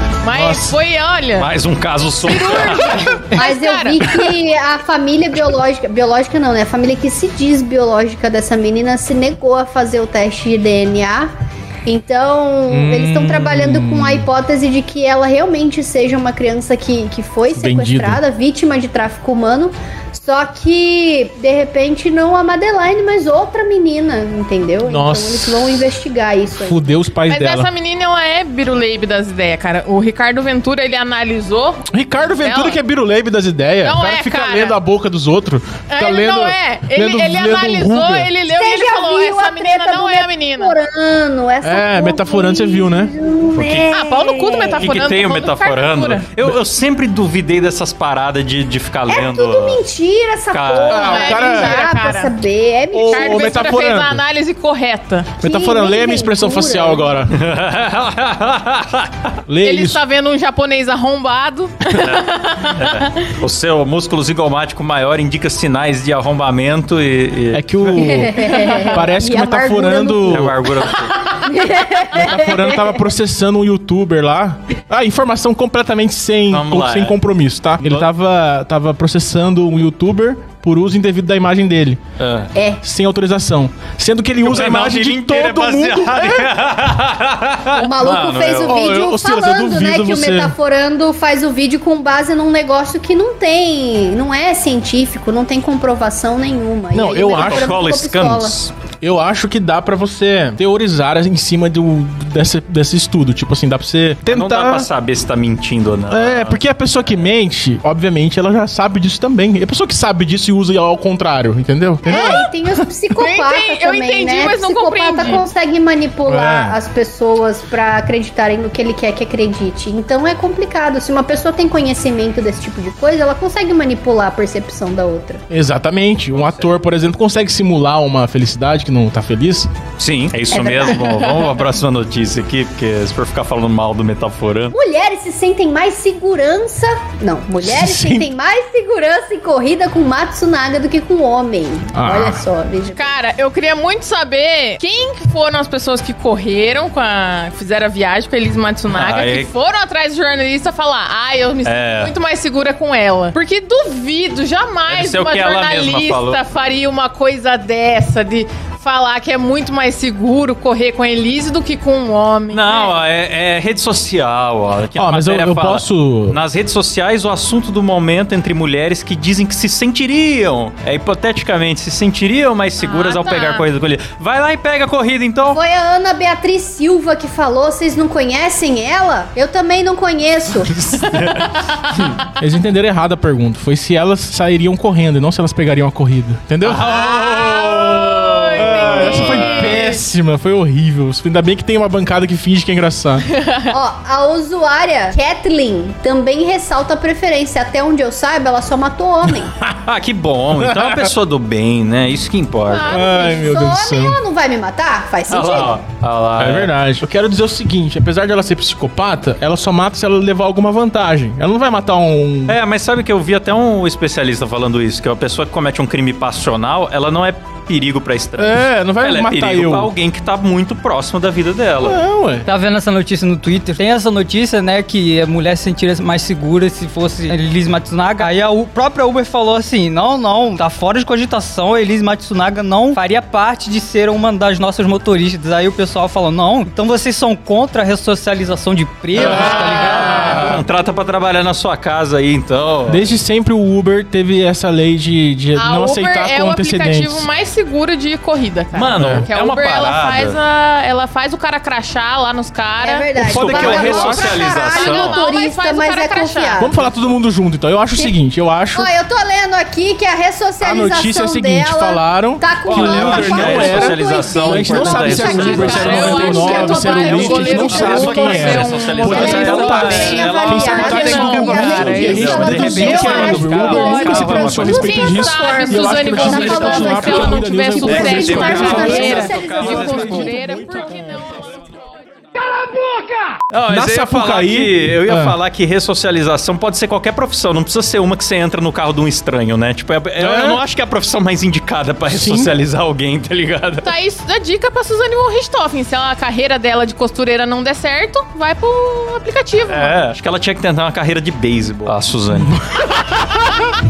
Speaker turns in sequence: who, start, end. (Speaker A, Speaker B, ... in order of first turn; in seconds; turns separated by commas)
Speaker A: 0.2-1.5, Speaker B: 0.3-0.8, Speaker C: 1.4-3.2, Speaker A: 2.2-4.3, Speaker D: 3.3-11.3, Speaker D: 11.8-26.9, Speaker B: 12.7-14.3, Speaker B: 17.5-18.2, Speaker B: 24.8-25.9, Speaker B: 26.6-27.7, Speaker A: 27.3-32.8, Speaker B: 31.9-38.3, Speaker A: 33.8-34.8, Speaker A: 35.9-40.8, Speaker D: 38.5-44.9, Speaker B: 41.6-43.1, Speaker C: 43.5-43.9, Speaker A: 43.9-46.2, Speaker C: 44.8-49.8, Speaker D: 49.1-53.7, Speaker C: 50.5-51.1, Speaker B: 50.9-51.8, Speaker A: 51.0-52.3, Speaker B: 52.9-54.2, Speaker A: 53.1-55.3, Speaker B: 55.4-57.4, Speaker D: 55.4-57.2, Speaker C: 57.3-59.3, Speaker B: 59.5-60.0, Speaker A: 59.6-63.2, Speaker C: 61.9-68.2, Speaker B: 67.5-70.6, Speaker D: 67.9-70.5, Speaker A: 68.4-69.0, Speaker C: 70.2-71.4, Speaker D: 71.4-73.0, Speaker B: 72.1-82.0, Speaker C: 76.5-77.2, Speaker C: 77.8-78.1, Speaker C: 82.2-82.5, Speaker D: 82.5-82.8, Speaker B: 82.8-86.5, Speaker C: 84.4-88.8, Speaker D: 87.8-98.5, Speaker B: 88.7-90.5, Speaker B: 96.9-97.7, Speaker C: 97.3-98.7, Speaker B: 99.0-104.9, Speaker C: 104.3-106.6, Speaker B: 106.1-112.4, Speaker D: 112.0-125.4, Speaker A: 112.1-112.5, Speaker A: 113.2-115.4, Speaker B: 116.2-116.8, Speaker B: 125.5-129.7, Speaker C: 126.3-126.6, Speaker C: 130.0-134.7, Speaker D: 130.5-131.0, Speaker D: 134.7-143.2, Speaker B: 137.6-138.3, Speaker B: 141.9-142.4, Speaker A: 142.9-163.0, Speaker C: 148.9-149.5, Speaker C: 151.6-152.1, Speaker C: 154.9-156.4, Speaker C: 162.5-175.6, Speaker B: 165.0-166.4, Speaker A: 172.8-173.6, Speaker D: 175.5-180.9, Speaker C: 180.7-182.2, Speaker B: 182.4-186.9, Speaker C: 186.6-189.8, Speaker A: 186.8-190.0, Speaker B: 188.5-193.2, Speaker A: 193.3-193.7, Speaker D: 193.7-199.5, Speaker B: 199.4-199.7, Speaker C: 199.8-203.0, Speaker B: 200.6-201.1, Speaker A: 202.7-203.5, Speaker B: 202.8-204.2, Speaker D: 203.0-205.8, Speaker C: 205.3-206.7, Speaker B: 206.4-212.6, Speaker C: 212.5-222.0, Speaker B: 218.4-219.9, Speaker B: 221.8-222.5, Speaker E: 222.4-240.5, Speaker B: 239.1-240.6, Speaker C: 239.1-243.0, Speaker B: 242.9-247.3, Speaker A: 245.6-253.1, Speaker C: 248.7-250.4, Speaker B: 249.0-249.3, Speaker D: 252.8-256.8, Speaker C: 253.2-255.2, Speaker B: 253.2-254.3, Speaker A: 254.2-256.9, Speaker B: 256.6-258.9, Speaker D: 258.7-280.4, Speaker B: 260.6-281.3, Speaker C: 262.6-266.4, Speaker A: 265.2-281.5, Speaker C: 267.6-275.0, Speaker C: 277.8-280.4, Speaker C: 283.5-293.9, Speaker B: 283.7-285.4, Speaker B: 290.2-290.6, Speaker B: 292.1-292.5, Speaker A: 293.8-299.9, Speaker C: 299.7-302.6, Speaker B: 302.4-302.8